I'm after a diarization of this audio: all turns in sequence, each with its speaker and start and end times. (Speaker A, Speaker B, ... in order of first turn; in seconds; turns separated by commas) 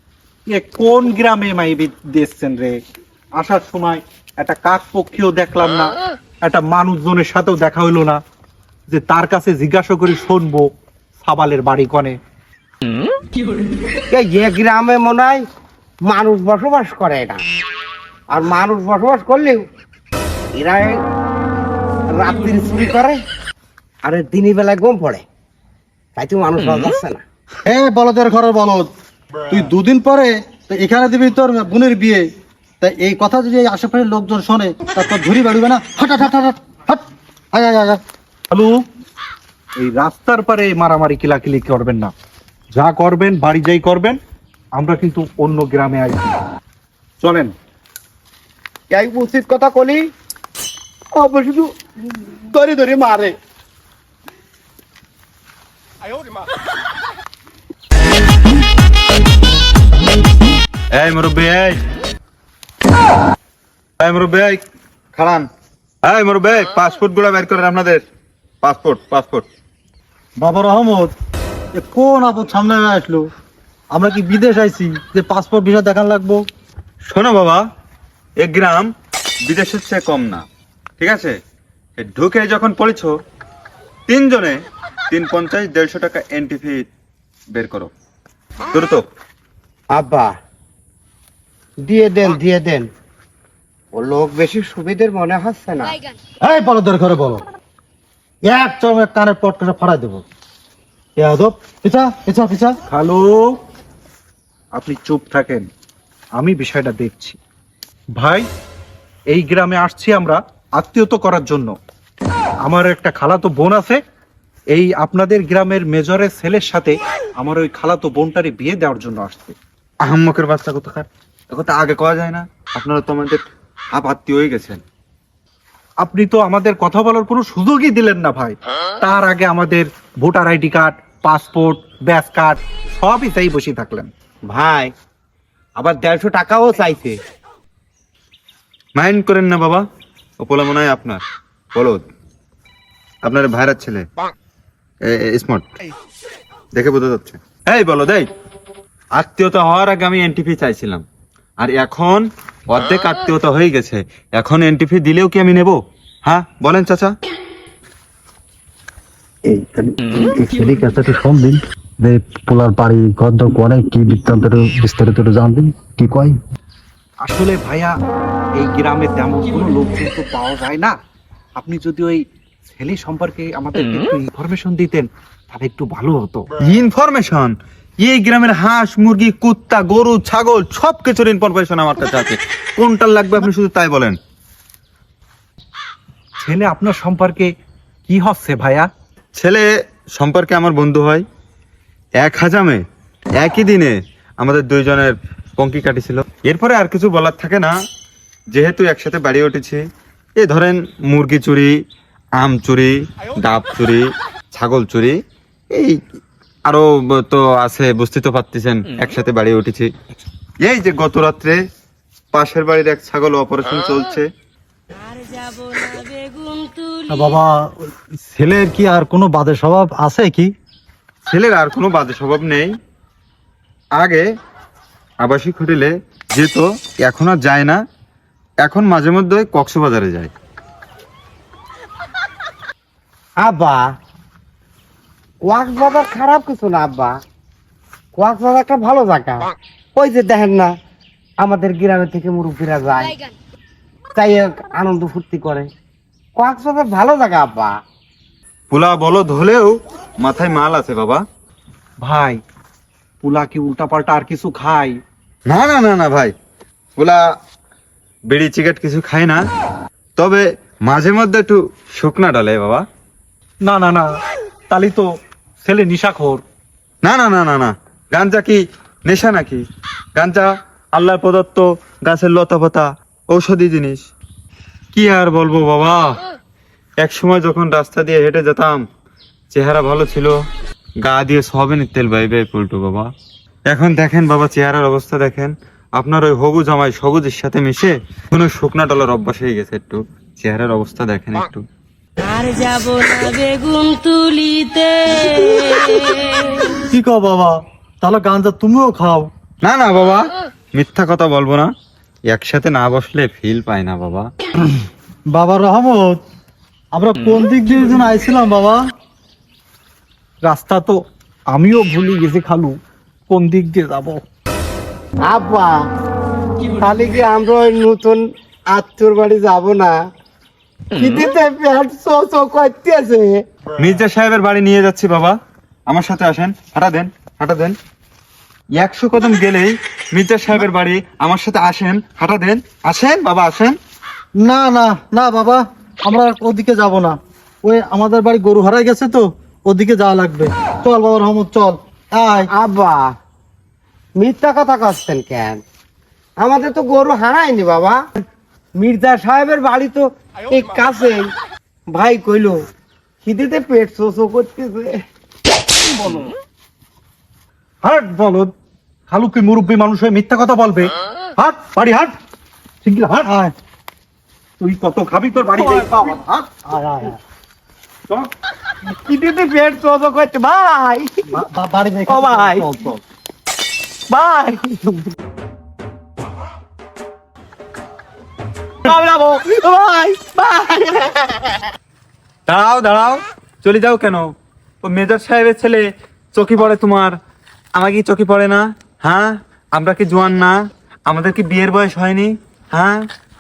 Speaker A: 0.5-2.8, Speaker A: 3.3-8.2, Speaker A: 8.9-12.2, Speaker B: 14.1-15.4, Speaker B: 16.1-17.4, Speaker B: 18.3-19.6, Speaker B: 20.5-21.0, Speaker B: 22.1-23.2, Speaker B: 24.0-25.2, Speaker B: 26.1-27.2, Speaker C: 27.6-28.9, Speaker C: 29.5-32.3, Speaker C: 32.8-38.0, Speaker A: 38.5-38.8, Speaker A: 39.8-42.1, Speaker A: 42.7-44.2, Speaker A: 44.7-46.4, Speaker A: 47.2-47.5, Speaker B: 48.9-50.0, Speaker B: 51.1-53.3, Speaker D: 60.9-61.8, Speaker D: 64.0-64.6, Speaker D: 65.1-65.5, Speaker D: 66.0-68.0, Speaker D: 68.6-69.5, Speaker C: 70.4-71.1, Speaker C: 71.7-73.3, Speaker C: 73.9-76.4, Speaker D: 77.1-77.6, Speaker D: 78.4-78.9, Speaker D: 79.5-80.5, Speaker D: 81.0-81.3, Speaker D: 82.0-83.1, Speaker D: 84.1-84.6, Speaker D: 85.1-86.9, Speaker D: 87.5-87.9, Speaker D: 88.7-89.0, Speaker B: 89.9-90.3, Speaker B: 91.8-92.9, Speaker B: 93.9-96.0, Speaker C: 96.4-97.4, Speaker C: 98.5-100.2, Speaker C: 101.2-102.8, Speaker A: 102.9-103.6, Speaker A: 104.7-105.7, Speaker A: 106.3-107.4, Speaker A: 108.1-108.5, Speaker A: 109.3-111.8, Speaker A: 112.6-114.0, Speaker A: 114.7-119.5, Speaker D: 120.0-124.8, Speaker A: 126.0-134.1, Speaker B: 134.5-134.9, Speaker B: 135.8-137.2, Speaker D: 138.9-139.8, Speaker D: 140.4-141.2, Speaker D: 141.7-142.0, Speaker D: 143.2-144.0, Speaker D: 145.0-145.6, Speaker D: 146.7-148.3, Speaker D: 149.1-151.0, Speaker D: 151.6-157.1, Speaker C: 159.4-166.4, Speaker A: 167.2-167.9, Speaker A: 168.6-170.9, Speaker A: 171.5-176.5, Speaker D: 176.6-184.2, Speaker A: 186.4-187.5, Speaker A: 188.1-188.9, Speaker D: 189.3-191.2, Speaker D: 192.2-192.8, Speaker D: 193.4-197.7, Speaker D: 198.5-199.8, Speaker D: 200.4-201.7, Speaker D: 202.4-205.2, Speaker D: 205.7-206.0, Speaker D: 206.6-209.9, Speaker D: 210.6-211.6, Speaker D: 212.3-214.2, Speaker E: 214.9-217.4, Speaker C: 217.1-220.5, Speaker D: 221.3-222.7, Speaker D: 224.0-224.2, Speaker D: 225.2-227.8, Speaker D: 228.6-230.3, Speaker B: 233.4-233.8, Speaker B: 235.4-237.1, Speaker B: 238.2-240.7, Speaker B: 241.4-243.2, Speaker B: 244.1-245.7, Speaker B: 246.3-247.7, Speaker D: 248.7-251.2, Speaker A: 252.0-252.4, Speaker A: 253.2-255.0, Speaker D: 255.5-256.3, Speaker D: 257.0-257.2, Speaker D: 258.3-259.4, Speaker D: 260.2-262.9, Speaker A: 263.6-264.1, Speaker A: 264.7-265.1, Speaker A: 265.6-266.4, Speaker D: 267.0-269.6, Speaker D: 270.1-274.0, Speaker D: 274.9-276.2, Speaker D: 277.0-278.8, Speaker D: 279.5-280.4, Speaker D: 281.0-283.1, Speaker D: 283.7-291.6, Speaker E: 292.2-296.8, Speaker C: 296.9-299.3, Speaker D: 299.6-301.7, Speaker D: 302.3-304.3, Speaker C: 305.3-306.2, Speaker C: 306.9-308.8, Speaker A: 310.4-314.2, Speaker B: 315.2-315.8, Speaker B: 316.8-320.0, Speaker B: 321.0-323.4, Speaker D: 323.8-325.4, Speaker D: 325.9-327.8, Speaker D: 328.8-333.8, Speaker C: 334.4-342.5, Speaker B: 342.5-343.1, Speaker B: 344.2-345.6, Speaker B: 346.4-348.0, Speaker B: 348.8-351.3, Speaker B: 351.9-352.6, Speaker B: 353.2-355.0, Speaker A: 357.8-358.5, Speaker A: 359.1-360.9, Speaker C: 361.4-361.8, Speaker A: 361.8-362.1, Speaker A: 362.9-363.2, Speaker C: 362.9-363.5, Speaker A: 364.6-366.2, Speaker B: 366.7-367.1, Speaker B: 368.9-371.4, Speaker C: 371.3-373.0, Speaker B: 372.1-372.7, Speaker B: 374.1-375.1, Speaker B: 378.8-381.4, Speaker D: 382.5-384.3, Speaker D: 384.8-387.2, Speaker D: 387.8-393.1